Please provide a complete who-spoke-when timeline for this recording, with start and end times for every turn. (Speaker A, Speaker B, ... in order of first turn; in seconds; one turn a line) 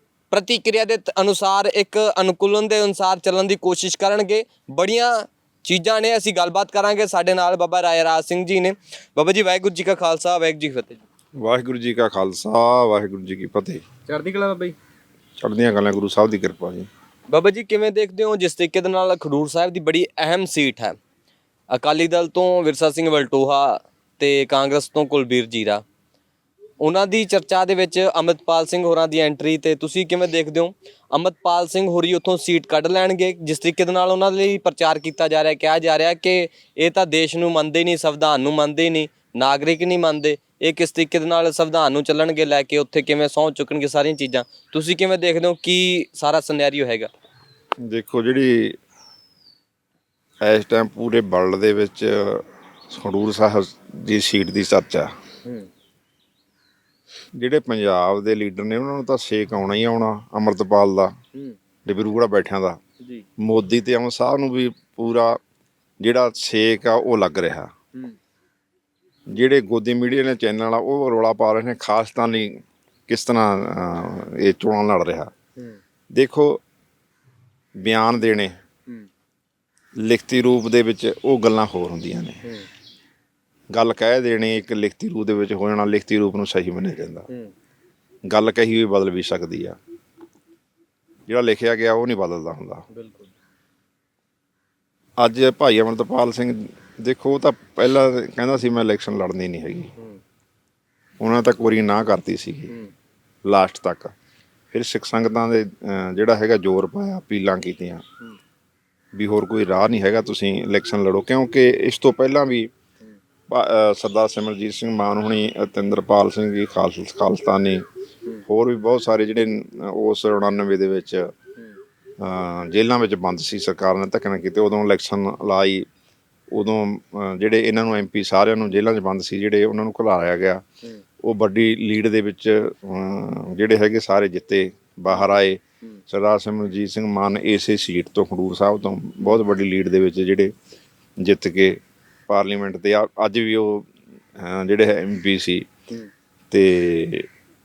Speaker A: 0.3-11.0
Speaker B: 11.4-13.8
Speaker A: 14.1-14.8
Speaker B: 15.4-16.9
Speaker A: 17.3-21.0
Speaker A: 21.7-25.8
Speaker A: 26.8-47.1
Speaker B: 47.8-48.8
Speaker B: 50.4-55.1
Speaker B: 57.4-61.1
Speaker B: 61.9-62.8
Speaker B: 63.4-65.4
Speaker B: 66.0-67.7
Speaker B: 69.3-75.3
Speaker B: 76.1-76.6
Speaker B: 77.8-78.5
Speaker B: 80.0-82.4
Speaker B: 83.7-87.3
Speaker B: 88.3-89.8
Speaker B: 91.3-92.8
Speaker A: 92.9-93.3
Speaker B: 95.2-99.9
Speaker B: 101.2-102.7
Speaker B: 103.5-104.1
Speaker B: 104.7-108.0
Speaker B: 109.1-112.7
Speaker B: 113.5-117.8
Speaker B: 118.4-121.3
Speaker B: 122.2-125.8
Speaker B: 126.5-130.6
Speaker B: 131.2-140.5
Speaker B: 141.2-145.6
Speaker B: 146.5-147.3